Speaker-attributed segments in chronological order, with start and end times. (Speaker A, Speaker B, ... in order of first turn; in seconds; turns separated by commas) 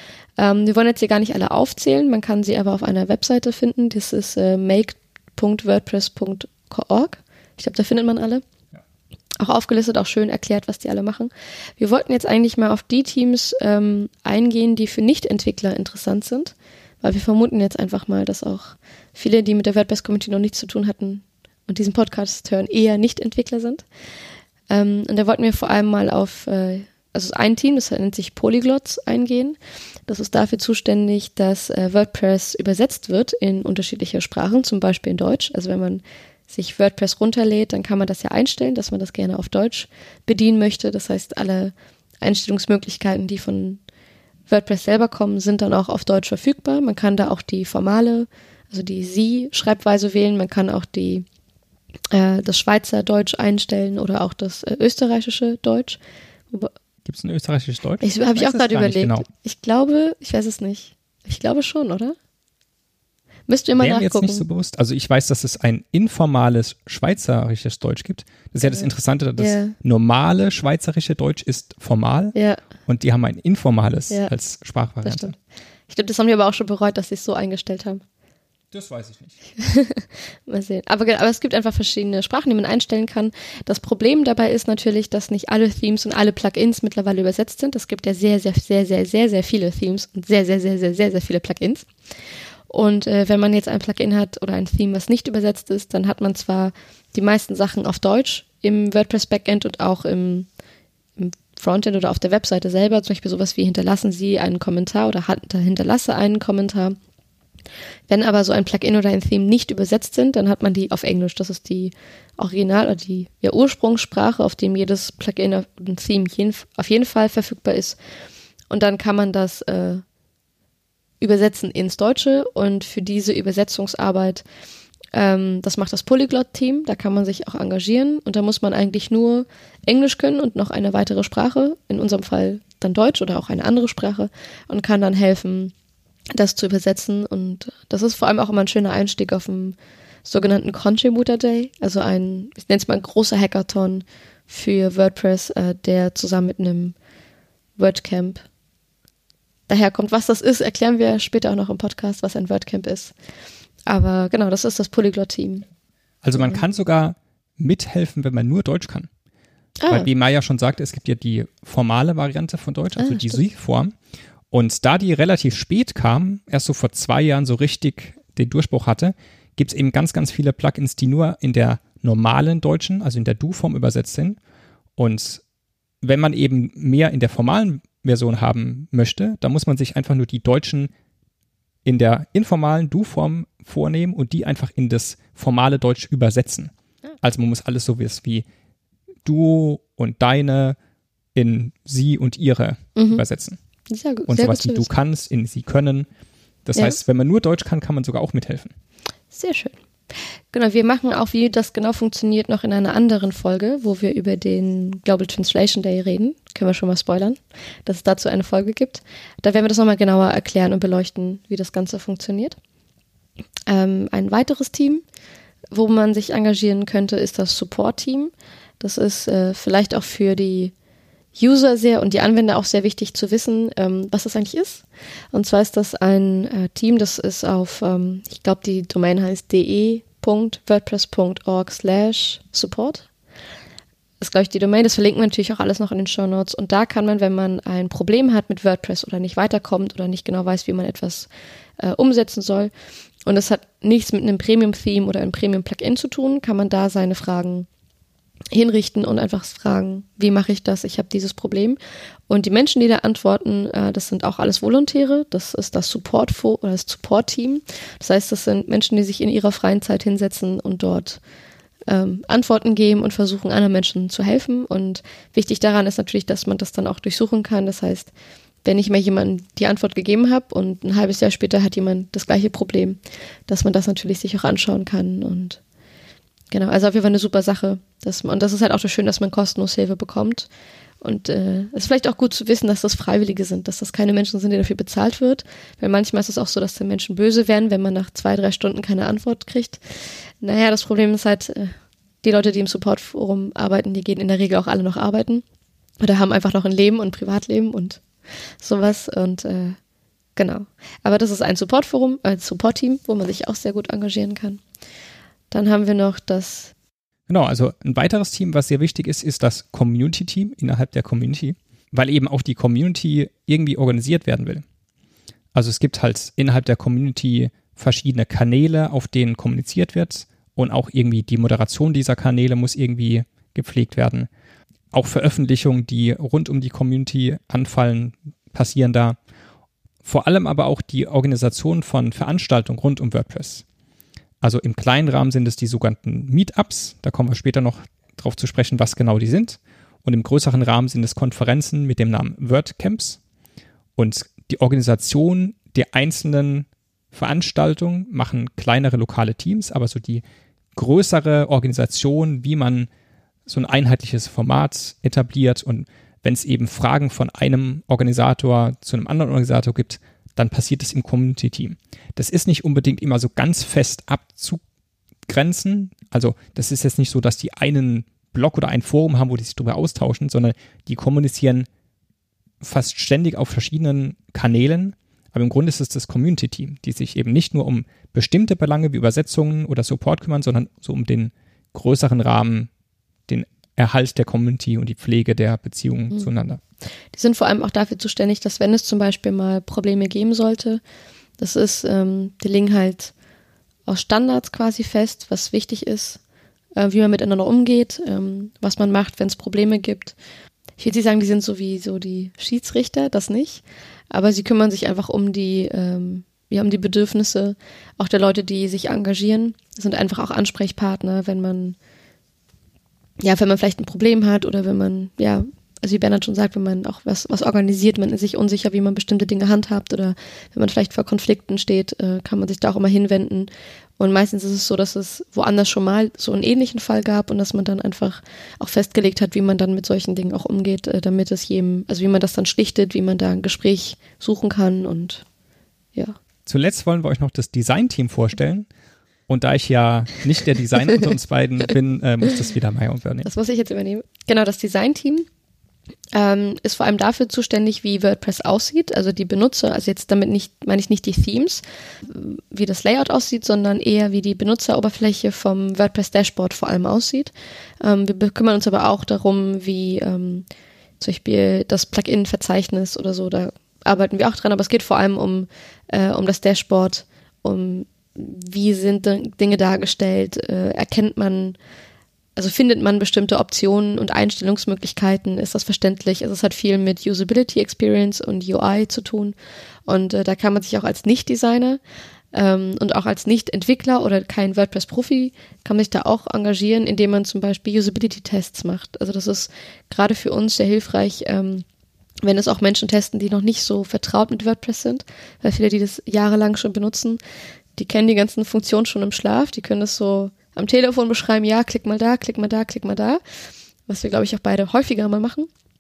Speaker A: 0.4-8.4, Speaker A: 9.4-23.9, Speaker A: 24.7-43.8, Speaker A: 44.5-51.2, Speaker A: 52.1-56.0, Speaker B: 57.0-59.3, Speaker A: 58.0-62.1, Speaker A: 63.5-64.5, Speaker B: 63.8-72.3, Speaker A: 69.4-69.8, Speaker A: 72.3-72.6, Speaker B: 72.9-75.3, Speaker A: 75.0-75.4, Speaker A: 75.9-78.0, Speaker B: 78.7-79.3, Speaker A: 79.6-91.9, Speaker A: 92.7-100.5, Speaker A: 101.2-107.0, Speaker A: 108.1-118.0, Speaker A: 118.7-120.0, Speaker A: 121.2-124.4, Speaker A: 125.1-135.7, Speaker A: 136.3-146.9, Speaker A: 147.8-148.4, Speaker A: 149.7-153.1, Speaker A: 153.9-155.7, Speaker B: 156.2-159.1, Speaker A: 159.8-160.1, Speaker B: 159.9-163.9, Speaker A: 163.0-163.4, Speaker B: 164.5-174.4, Speaker B: 175.0-175.4, Speaker B: 176.0-180.9, Speaker B: 181.8-188.5, Speaker B: 189.2-190.8, Speaker B: 191.3-193.6, Speaker A: 193.0-193.2, Speaker A: 193.9-194.9, Speaker B: 194.3-196.1, Speaker B: 196.7-198.7, Speaker A: 199.3-199.8, Speaker A: 200.5-212.6, Speaker A: 213.7-215.0, Speaker A: 215.7-220.7, Speaker A: 221.4-233.1, Speaker A: 234.2-242.7, Speaker A: 243.3-247.7, Speaker A: 248.5-251.8, Speaker A: 252.3-261.2, Speaker A: 261.9-268.1, Speaker A: 268.6-275.6, Speaker A: 276.5-280.5, Speaker A: 281.0-289.8, Speaker A: 290.4-295.4, Speaker A: 296.0-298.0, Speaker A: 298.6-299.8, Speaker A: 300.4-304.6, Speaker A: 305.5-306.7, Speaker B: 307.3-314.6, Speaker B: 315.5-324.3, Speaker B: 324.9-329.2, Speaker B: 330.0-333.6, Speaker B: 334.4-343.2, Speaker B: 344.0-350.2, Speaker B: 350.8-352.9, Speaker B: 353.5-364.6, Speaker B: 365.3-371.7, Speaker B: 372.6-382.7, Speaker B: 383.3-386.6, Speaker A: 387.1-390.8, Speaker A: 391.4-393.1, Speaker A: 393.9-396.2, Speaker A: 396.8-400.2, Speaker A: 400.8-411.8, Speaker A: 413.2-435.2, Speaker B: 436.5-438.7, Speaker B: 439.3-443.3, Speaker A: 443.2-445.3, Speaker A: 446.1-460.5, Speaker A: 461.0-471.6, Speaker A: 472.4-479.4, Speaker A: 479.9-481.8, Speaker A: 482.3-491.6, Speaker A: 492.2-497.2, Speaker A: 497.8-503.2, Speaker A: 503.9-505.5